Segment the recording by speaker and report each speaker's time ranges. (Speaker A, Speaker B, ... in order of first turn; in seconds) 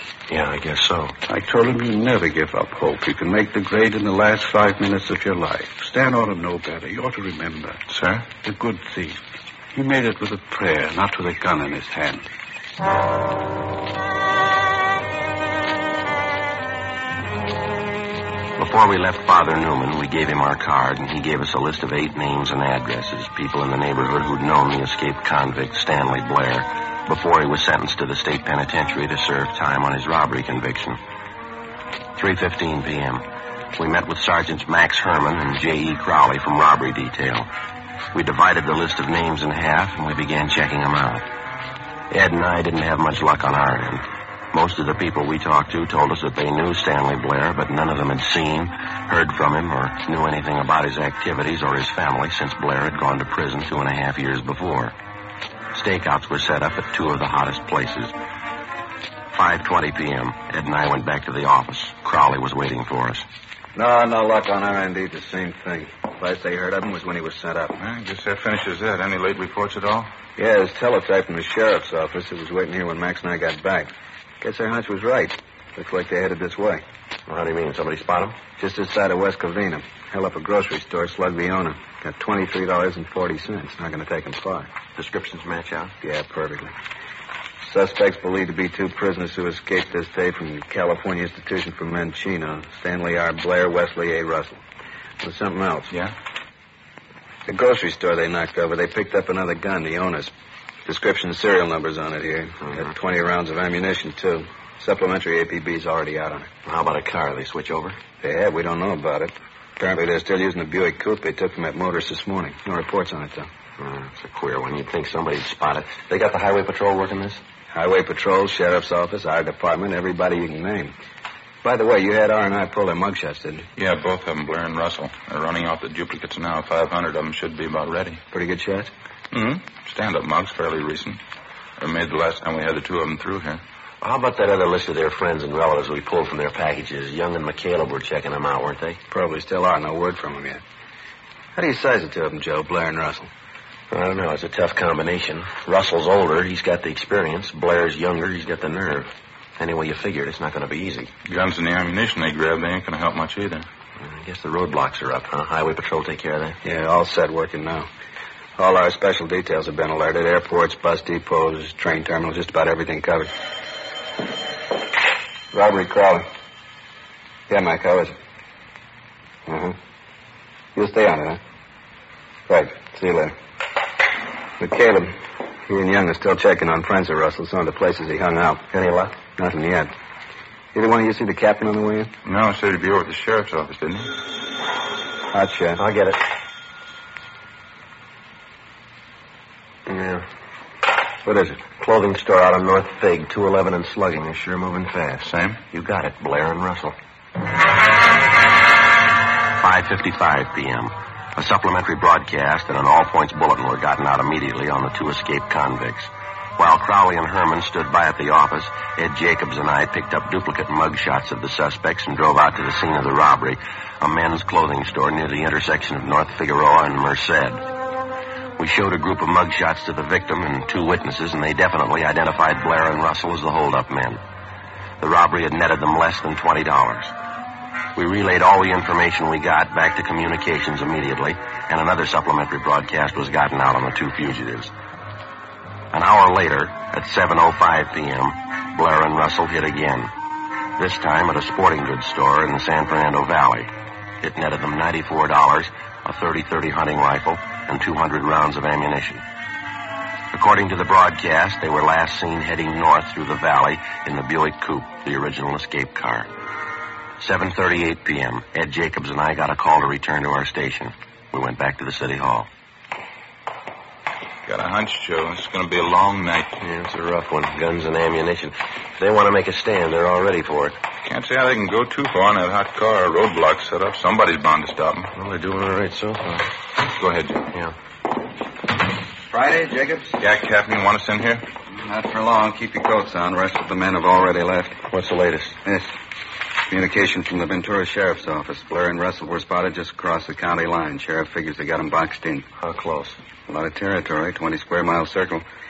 Speaker A: 0.3-1.2, 18.6-31.0, 32.1-33.2, 33.8-37.5, 38.1-41.2, 42.1-54.9, 55.7-58.1, 59.3-63.2, 77.2-78.4, 85.0-85.9, 106.6-108.0, 113.8-117.4, 134.0-139.0, 143.9-151.1, 154.0-156.6, 185.8-186.2, 189.8-190.2, 191.4-196.9, 199.6-217.6, 218.6-224.2, 225.0-227.1, 227.9-234.7, 235.9-240.1, 240.8-249.2, 250.3-256.3, 257.2-262.5, 266.6-270.8, 275.1-276.5, 284.9-285.6, 292.6-293.2
Speaker B: 1.2-7.8, 8.3-12.3
Speaker C: 7.9-8.3, 67.8-70.1, 123.8-128.2, 129.3-131.2, 131.8-133.6, 151.2-153.7, 182.2-184.1, 195.2-195.6, 264.4-266.6, 271.0-275.1, 276.9-277.5, 280.2-281.5
Speaker D: 63.7-67.8, 70.4-76.8, 78.6-84.7, 86.0-86.8, 87.6-94.6, 95.2-95.9, 97.5-100.3, 100.8-106.5, 108.2-113.5, 117.7-120.9, 121.6-123.7, 128.3-128.9, 139.1-140.6, 141.5-143.3, 156.6-157.9, 158.6-163.3, 165.5-166.3, 167.5-168.2, 169.4-169.8, 170.7-171.4, 172.5-173.3, 174.6-179.9, 180.7-182.1, 185.3-185.8, 191.2-191.6, 279.3-280.2, 281.7-284.8, 285.6-285.9, 286.7-292.5, 293.5-295.4